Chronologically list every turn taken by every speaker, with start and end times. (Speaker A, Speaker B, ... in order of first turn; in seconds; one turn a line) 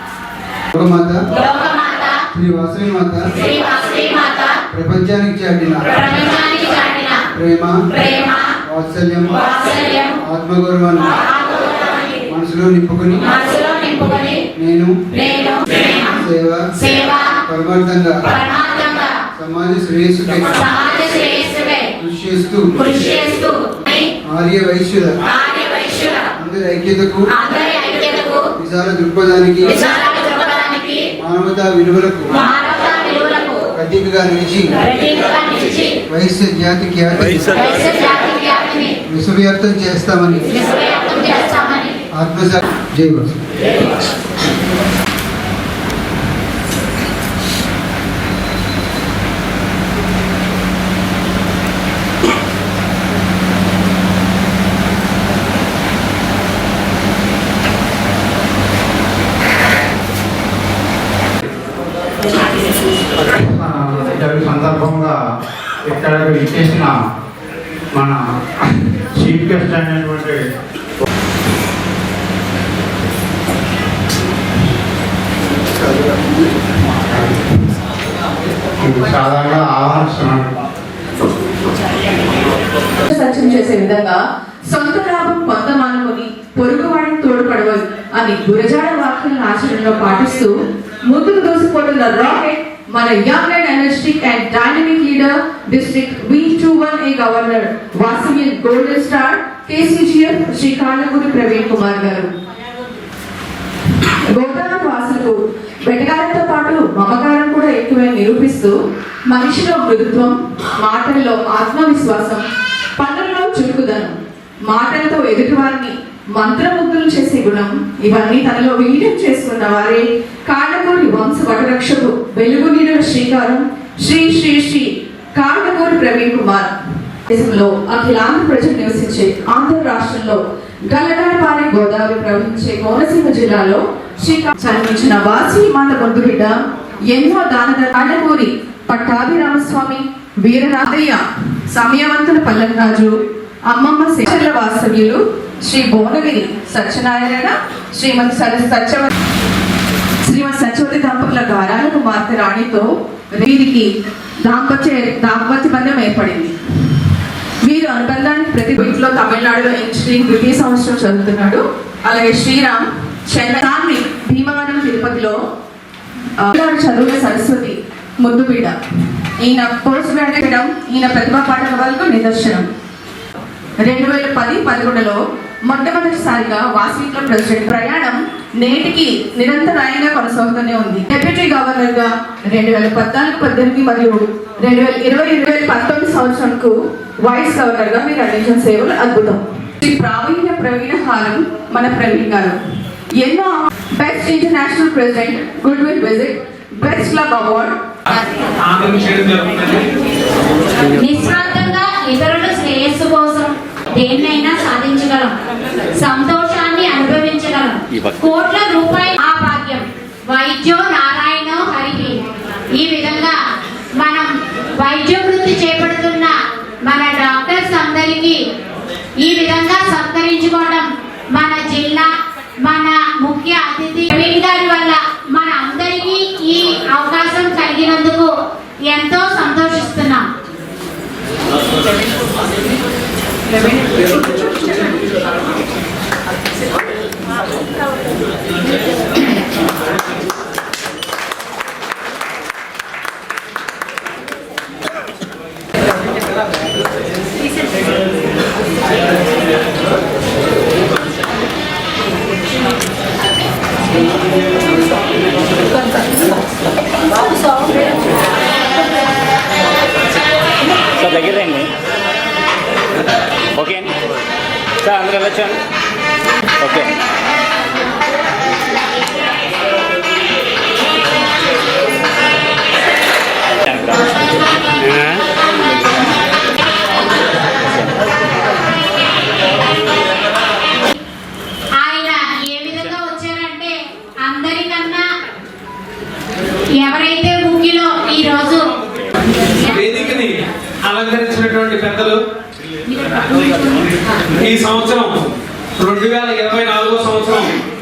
Speaker A: 0.7-1.2
Speaker B: 1.3-2.2
Speaker A: 2.3-3.3
Speaker B: 3.4-4.6
Speaker A: 4.7-5.9
Speaker B: 5.9-7.3
Speaker A: 7.3-7.8
Speaker B: 7.9-8.6
Speaker A: 8.7-9.4
Speaker B: 9.3-10.2
Speaker A: 10.2-11.2
Speaker B: 11.2-12.2
Speaker A: 12.3-13.2
Speaker B: 13.2-14.4
Speaker A: 14.6-15.0
Speaker B: 15.1-16.2
Speaker A: 16.2-16.7
Speaker B: 16.8-17.4
Speaker A: 17.5-18.2
Speaker B: 18.3-19.2
Speaker A: 19.4-20.6
Speaker B: 20.5-21.9
Speaker A: 22.0-22.8
Speaker B: 22.8-24.1
Speaker A: 24.3-25.2
Speaker B: 25.2-26.3
Speaker A: 26.4-27.3
Speaker B: 27.3-28.4
Speaker A: 28.6-29.8
Speaker B: 29.7-31.1
Speaker A: 31.2-32.3
Speaker B: 32.3-33.6
Speaker A: 33.8-34.7
Speaker B: 34.8-36.0
Speaker A: 36.1-37.5
Speaker B: 37.5-39.0
Speaker A: 39.1-40.5
Speaker B: 40.5-42.0
Speaker A: 42.1-43.4
Speaker C: 63.2-65.2
Speaker C: 65.8-67.1
Speaker C: 67.9-70.4
Speaker C: 77.1-77.4
Speaker C: 78.8-80.5
Speaker D: 83.1-90.5
Speaker D: 91.1-102.3
Speaker D: 104.3-108.7
Speaker D: 109.3-112.5
Speaker D: 113.0-126.7
Speaker D: 127.3-136.6
Speaker D: 137.1-149.1
Speaker D: 150.2-153.9
Speaker D: 154.4-156.6
Speaker D: 157.6-165.4
Speaker D: 166.4-168.8
Speaker D: 169.4-172.7
Speaker D: 173.8-192.6
Speaker D: 193.2-197.8
Speaker E: 198.1-199.9
Speaker B: 201.0-205.4
Speaker B: 206.0-212.2
Speaker B: 212.8-213.4
Speaker B: 214.0-216.3
Speaker B: 216.8-218.4
Speaker B: 219.2-222.1
Speaker B: 222.6-228.3
Speaker B: 228.9-230.3
Speaker F: 261.0-261.7
Speaker F: 263.5-263.9
Speaker F: 264.8-265.6
Speaker F: 266.6-266.9
Speaker F: 273.6-274.2
Speaker F: 274.8-275.2
Speaker B: 281.8-285.1
Speaker B: 286.8-288.7
Speaker E: 289.7-292.2
Speaker E: 294.4-295.2
Speaker E: 295.8-297.5